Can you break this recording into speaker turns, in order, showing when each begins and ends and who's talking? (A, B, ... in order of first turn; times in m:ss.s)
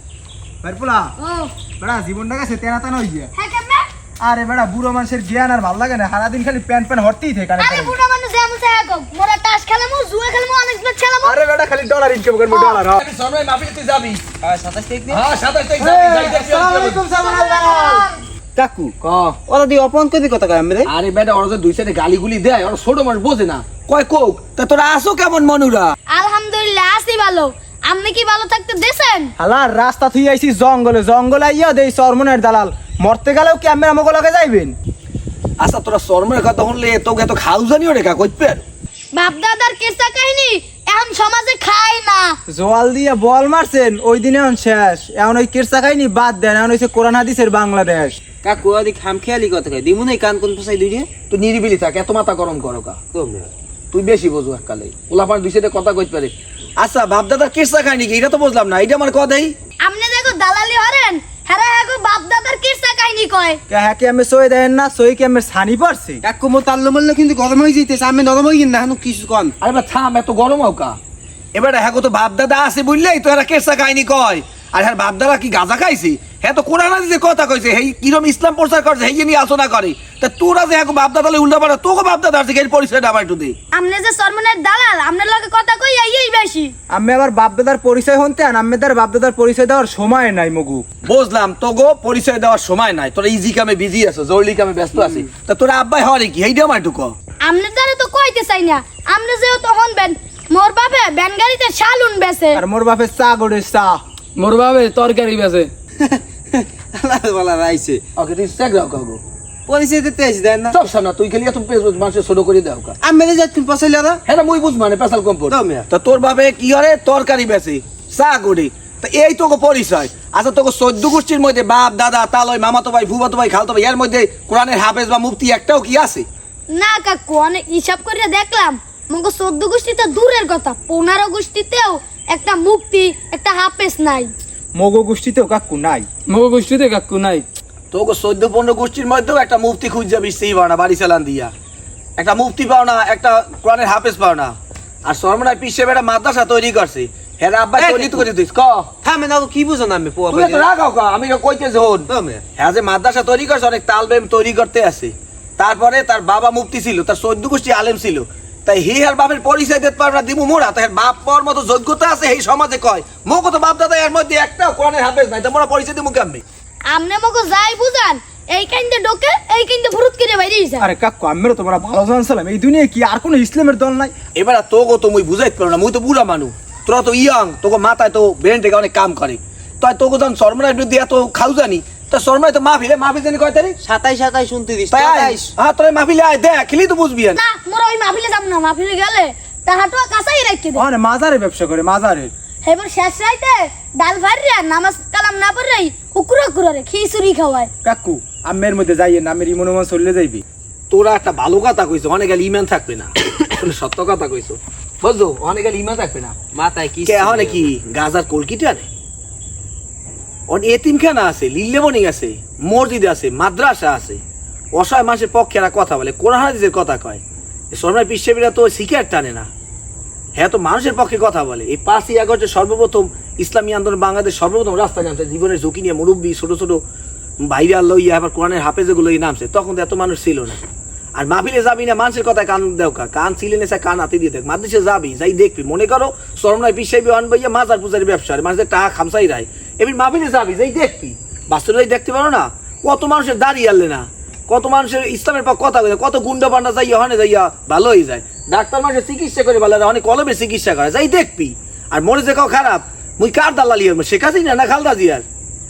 0:00.6-0:01.1 A
0:01.2-0:01.5 B
0:01.8-0:03.3 A
0:03.4-0:03.9 B
0:04.2-0:08.0 A
0:07.6-0:11.4 B
0:11.2-0:13.0 A
0:12.5-0:12.8 B
0:13.0-0:14.2 C
0:14.4-0:15.2 D
0:15.1-0:17.0 C
0:15.8-0:18.1 A
0:17.2-0:18.2 B
0:18.6-0:18.9 D
0:19.0-0:19.4 C
0:19.5-0:20.9 D
0:20.8-0:26.0 C
0:26.1-0:29.3 B
0:29.4-0:34.8 A
0:35.6-0:38.6 C
0:39.1-0:42.4 B
0:42.5-0:48.2 A
0:48.4-0:51.1 D
0:51.3-0:53.0 C
0:53.2-0:53.5 D
0:53.9-0:59.6 C
0:59.8-1:03.6 B
1:03.7-1:06.2 A
1:06.2-1:09.6 D
1:09.6-1:11.0 C
1:11.6-1:23.6 C
1:23.7-1:26.7 B
1:26.9-1:30.9 A
1:31.0-1:37.1 C
1:37.4-1:42.6 B
1:42.6-1:44.0 A
1:44.4-1:45.7 E
1:44.9-1:45.5 A
1:46.0-1:48.0 D
1:48.2-1:49.2 C
1:49.7-1:50.8 D
1:50.7-1:53.0 C
1:53.0-1:54.2 D
1:54.3-2:06.3 C
1:55.5-1:55.9 D
2:06.7-2:14.3 B
2:14.8-2:17.4 A
2:16.3-2:17.4 E
2:17.9-2:21.5 C
2:22.2-2:24.6 C
2:25.1-2:28.9 C
2:27.8-2:28.3 D
2:29.0-2:30.7 D
2:30.3-2:46.4 C
2:32.1-2:32.4 D
2:46.9-2:50.9 B
2:50.8-2:54.1 A
2:54.4-3:03.8 C
3:03.8-3:05.5 D
3:04.9-3:07.4 C
3:07.4-3:10.8 B
3:10.8-3:12.3 A
3:12.6-3:17.7 B
3:17.8-3:20.4 A
3:20.9-3:26.4 C
3:26.5-3:27.7 D
3:27.0-3:28.9 C
3:30.5-3:34.2 C
3:34.8-3:37.2 C
3:37.7-3:39.5 C
3:40.4-3:46.8 C
3:47.4-3:50.6 C
3:51.2-4:15.2 C